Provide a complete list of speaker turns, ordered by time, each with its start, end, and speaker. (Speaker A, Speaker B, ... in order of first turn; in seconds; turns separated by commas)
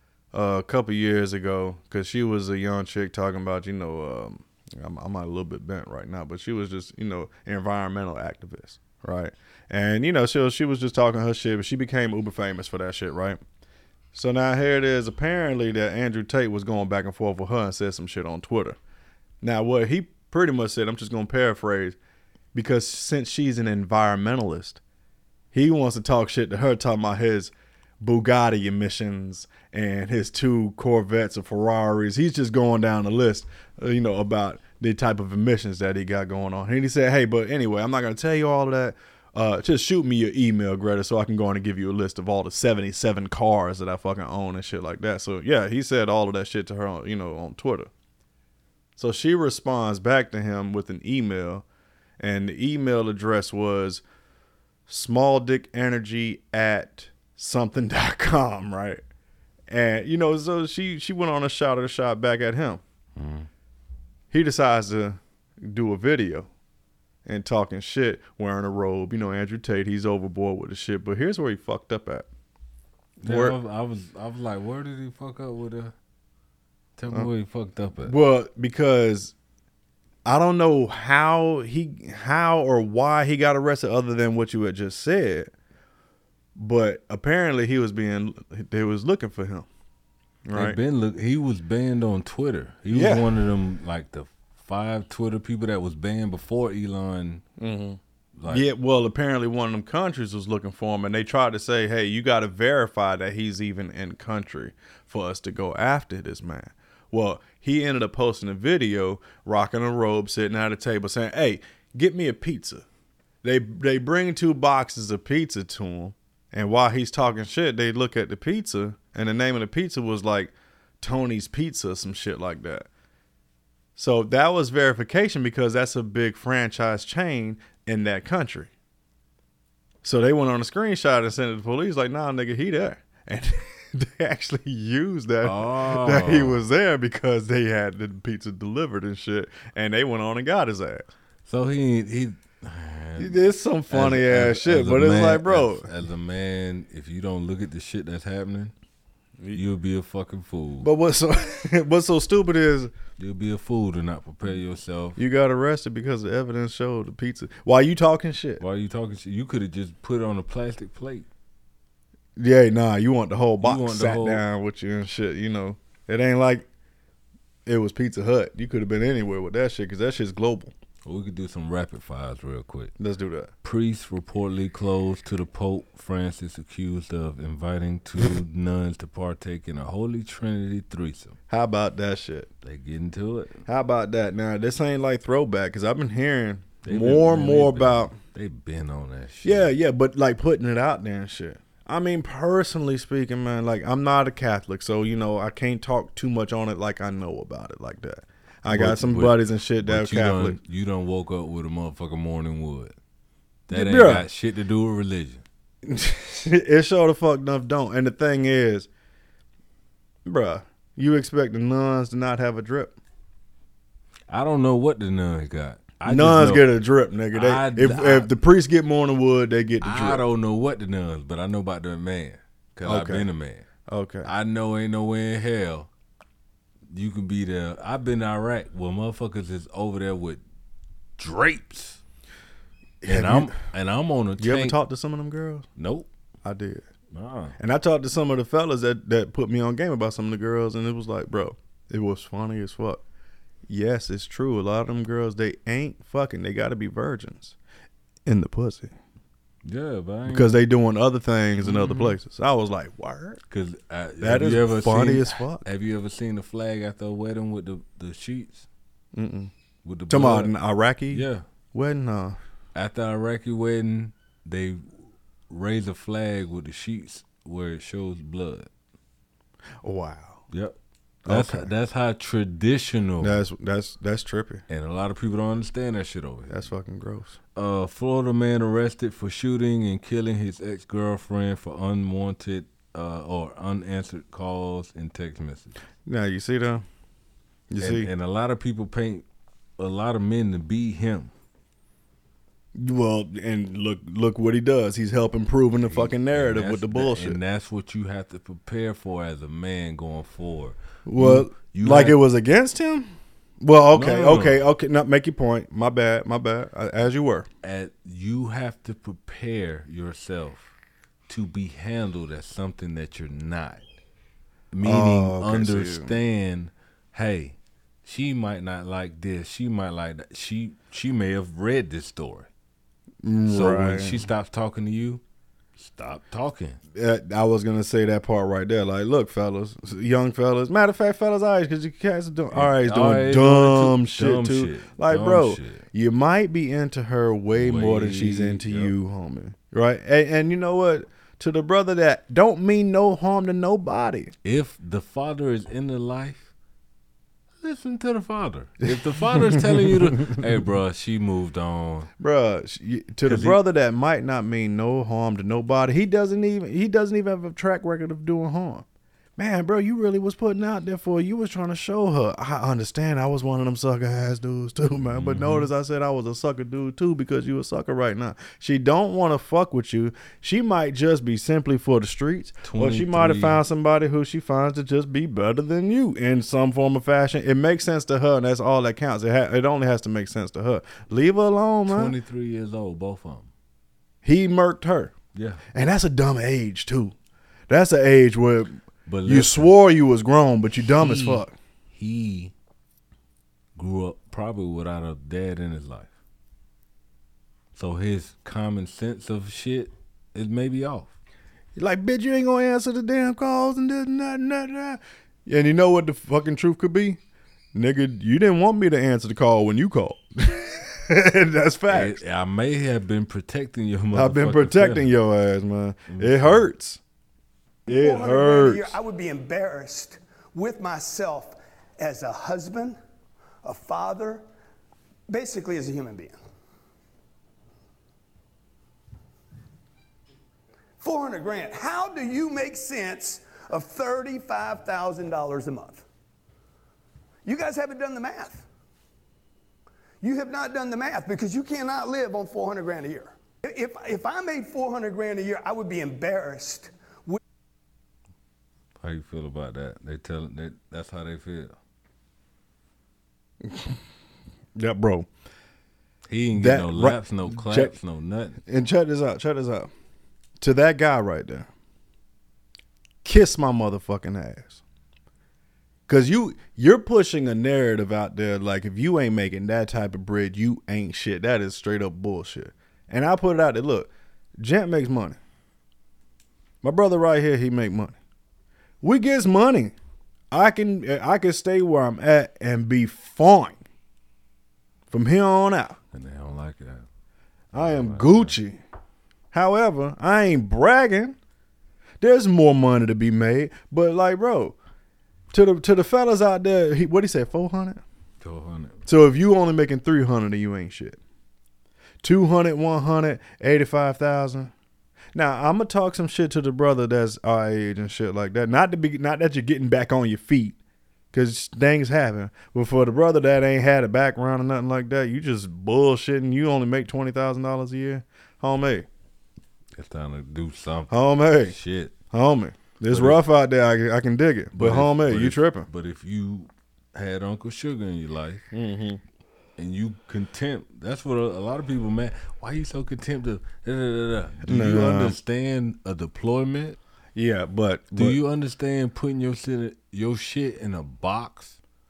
Speaker A: 0.3-13.4, Speaker A: 14.1-18.8, Speaker A: 19.4-22.0, Speaker A: 22.5-24.8, Speaker A: 25.5-47.9, Speaker A: 49.0-51.6, Speaker A: 52.2-54.0, Speaker A: 54.9-59.0, Speaker A: 59.7-62.8, Speaker B: 63.1-63.5, Speaker A: 64.3-66.5, Speaker A: 67.2-72.3, Speaker B: 73.2-75.9, Speaker A: 73.2-73.6, Speaker B: 77.0-78.1, Speaker A: 78.0-79.3, Speaker A: 80.2-85.5, Speaker A: 86.5-89.7, Speaker A: 90.4-90.8, Speaker B: 90.5-97.4, Speaker A: 92.9-93.3, Speaker A: 97.6-112.8, Speaker B: 98.3-98.7, Speaker A: 113.4-122.9, Speaker A: 124.0-128.7, Speaker A: 130.0-141.1, Speaker B: 135.4-136.6, Speaker B: 141.4-148.7, Speaker A: 143.2-145.8, Speaker B: 149.5-150.9, Speaker A: 150.8-152.9, Speaker B: 153.2-155.2, Speaker A: 155.2-158.6, Speaker B: 158.6-161.3, Speaker A: 162.4-166.7, Speaker B: 163.6-164.4, Speaker A: 167.7-170.7, Speaker B: 171.0-172.9, Speaker A: 173.0-173.5, Speaker B: 173.6-181.4, Speaker A: 181.5-182.5, Speaker B: 182.6-183.6, Speaker A: 183.7-188.2, Speaker B: 186.8-189.7, Speaker A: 189.4-200.6, Speaker B: 198.7-202.9, Speaker B: 203.7-205.4, Speaker A: 203.7-204.3, Speaker A: 205.8-208.9, Speaker A: 210.2-213.0, Speaker B: 214.3-216.7, Speaker A: 216.1-220.2, Speaker B: 217.3-218.3, Speaker B: 219.8-223.7, Speaker A: 222.8-223.3, Speaker A: 223.9-224.3, Speaker B: 224.2-225.9, Speaker B: 226.9-230.4, Speaker B: 231.2-232.0, Speaker A: 233.0-233.6, Speaker B: 233.0-234.8, Speaker A: 234.4-235.7, Speaker B: 235.8-236.1, Speaker A: 236.4-236.8, Speaker B: 237.1-237.6, Speaker A: 237.6-243.0, Speaker A: 243.7-247.6, Speaker A: 248.2-248.9, Speaker B: 249.6-250.6, Speaker A: 250.2-253.4, Speaker B: 251.6-252.2, Speaker B: 253.5-258.6, Speaker A: 254.2-255.6, Speaker A: 259.1-259.5, Speaker B: 259.8-260.5, Speaker A: 260.1-262.4, Speaker B: 261.1-261.4, Speaker B: 262.7-268.7, Speaker A: 269.8-270.4, Speaker B: 270.5-273.4, Speaker A: 271.3-271.7, Speaker A: 273.2-274.6, Speaker B: 274.7-276.7, Speaker A: 276.5-277.4, Speaker B: 277.6-285.8, Speaker A: 286.1-286.8, Speaker A: 287.7-288.1, Speaker B: 287.8-289.2, Speaker B: 289.8-291.3, Speaker A: 292.7-297.4, Speaker B: 295.8-302.2, Speaker A: 301.1-307.5, Speaker B: 303.9-304.6, Speaker B: 307.6-310.7, Speaker B: 311.3-313.8, Speaker B: 314.7-322.5, Speaker A: 314.8-316.1, Speaker A: 323.2-324.3, Speaker B: 323.5-325.2, Speaker B: 325.8-326.8, Speaker A: 326.9-344.3, Speaker B: 332.5-335.9, Speaker B: 337.5-338.9, Speaker B: 344.4-346.5, Speaker B: 347.6-352.1, Speaker A: 348.9-350.4, Speaker A: 352.2-358.8, Speaker B: 353.2-353.6, Speaker A: 359.4-382.1, Speaker B: 365.1-365.7, Speaker B: 372.6-373.6, Speaker B: 381.9-383.5, Speaker A: 384.2-385.1, Speaker B: 385.3-385.6, Speaker A: 385.7-387.1, Speaker A: 387.7-391.5, Speaker B: 389.1-389.7, Speaker B: 391.0-392.5, Speaker B: 393.8-396.1, Speaker B: 397.7-401.1, Speaker A: 401.8-407.2, Speaker A: 407.7-412.2, Speaker B: 411.9-415.1, Speaker A: 414.1-417.0, Speaker B: 416.1-416.7, Speaker A: 417.9-419.0, Speaker C: 417.9-423.0, Speaker C: 423.6-424.4, Speaker C: 425.3-426.4, Speaker C: 431.0-436.0, Speaker C: 437.4-438.6, Speaker C: 440.2-447.4, Speaker B: 449.0-451.8, Speaker A: 453.6-454.0, Speaker A: 454.8-455.3, Speaker B: 456.3-458.6, Speaker A: 456.5-457.9, Speaker A: 458.6-459.9, Speaker A: 460.6-461.7, Speaker A: 463.2-464.8, Speaker A: 466.1-475.4, Speaker A: 476.8-478.2, Speaker A: 479.0-479.9, Speaker A: 480.5-483.8, Speaker A: 485.1-486.0, Speaker B: 486.1-487.1, Speaker A: 487.7-488.8, Speaker B: 487.7-488.6, Speaker A: 489.5-491.4, Speaker A: 492.2-494.8, Speaker A: 495.5-498.0, Speaker B: 498.4-499.0, Speaker A: 499.1-501.2, Speaker A: 502.2-504.7, Speaker A: 505.3-510.8, Speaker A: 511.3-519.1, Speaker B: 519.9-522.1, Speaker A: 521.1-521.7, Speaker A: 522.3-525.9, Speaker B: 523.1-523.4, Speaker B: 524.7-528.7, Speaker A: 528.7-529.2, Speaker B: 529.8-537.0, Speaker A: 534.6-535.4, Speaker A: 537.4-538.4, Speaker B: 538.1-541.8